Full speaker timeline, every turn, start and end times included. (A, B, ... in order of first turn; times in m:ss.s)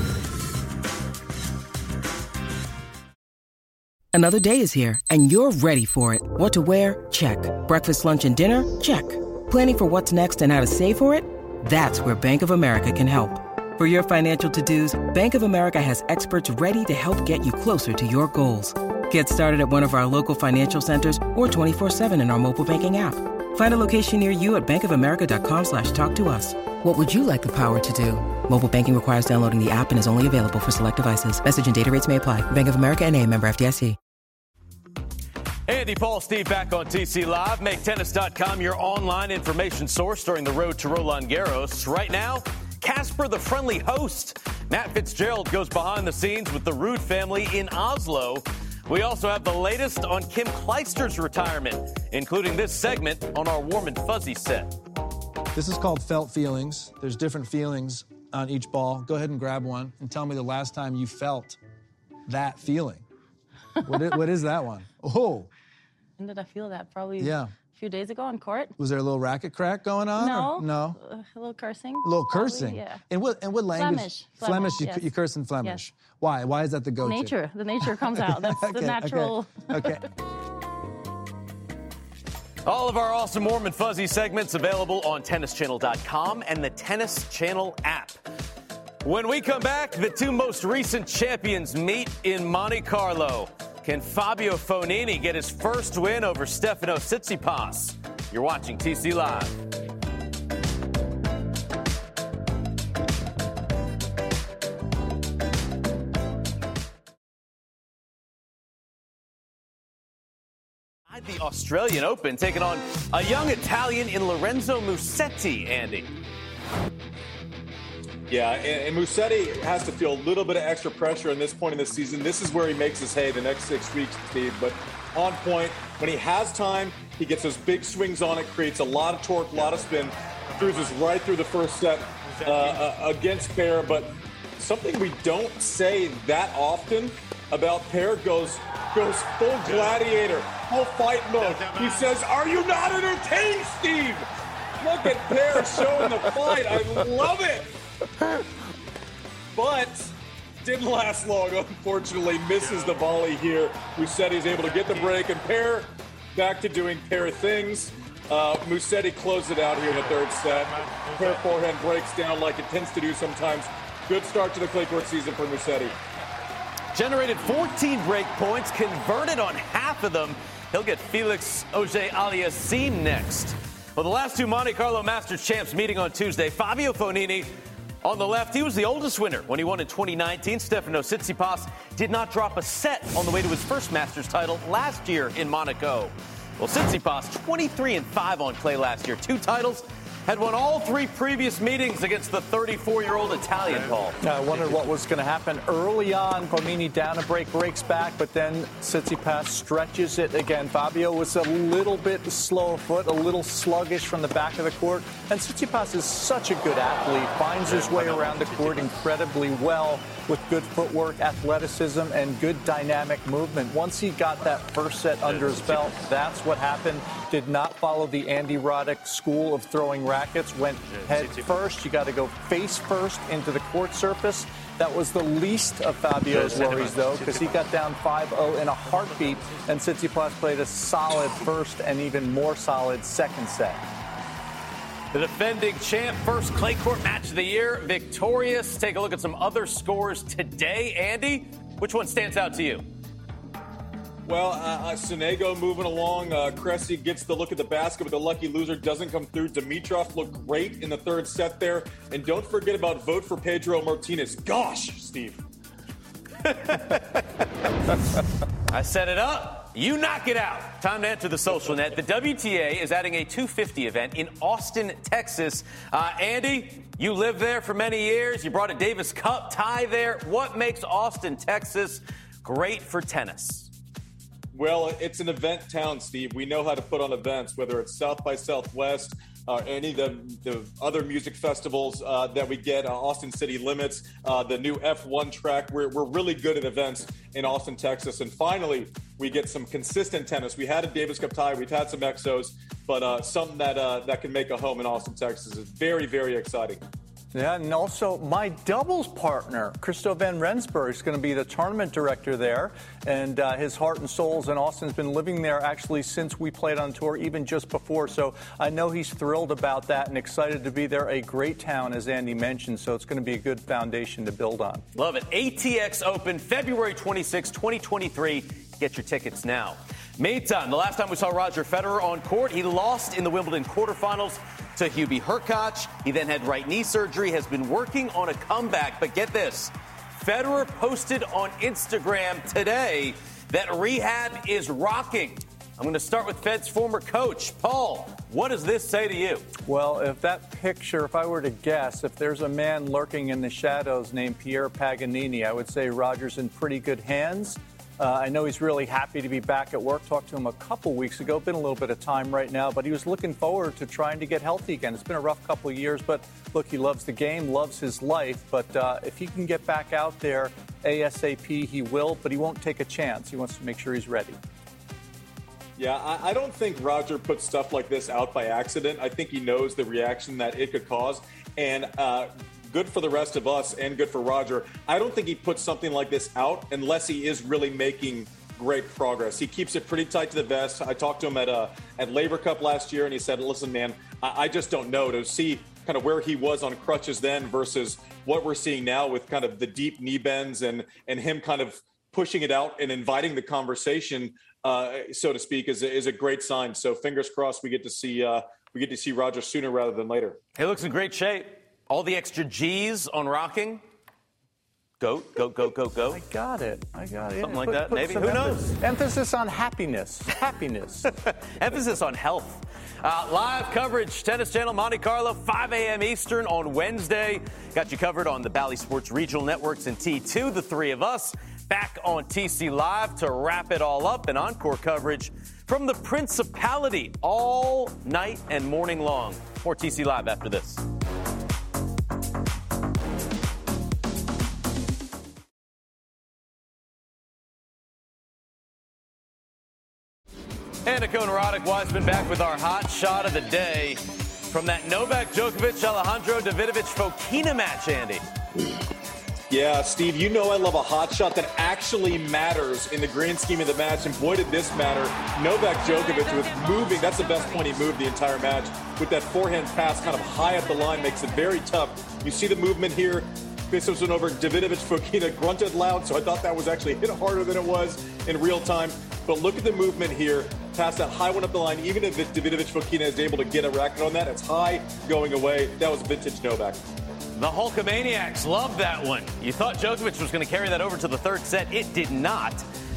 0:04.1-0:34.0 A
0:35.7-0:54.8 B
0:55.5-1:01.6 C
1:02.3-1:03.0 C
1:03.8-1:05.5 C
1:06.2-1:08.8 D
1:07.2-1:07.6 C
1:08.8-1:11.0 C
1:10.2-1:13.0 D
1:12.0-1:20.1 C
1:13.7-1:15.1 D
1:17.0-1:20.0 D
1:22.6-1:28.2 B
1:29.0-1:39.6 B
1:51.1-1:56.1 B
1:58.3-2:27.7 E
2:29.6-2:30.1 E
2:30.6-2:46.0 E
2:46.9-3:14.2 B
3:14.2-3:53.8 F
3:27.8-3:28.9 B
3:55.1-4:02.9 B
4:04.3-4:15.4 E
4:16.4-4:17.3 B
4:18.7-4:33.7 B
4:34.5-4:56.8 E
4:57.3-5:14.8 F
5:15.0-5:39.5 B
5:39.7-6:04.4 F
6:05.8-6:40.4 E
6:40.6-6:43.8 B
6:45.0-6:46.2 B
6:46.1-6:51.1 F
6:47.4-6:48.8 B
6:51.1-7:10.8 B
7:20.8-7:28.2 B
7:29.5-7:56.8 E
7:57.4-8:02.7 B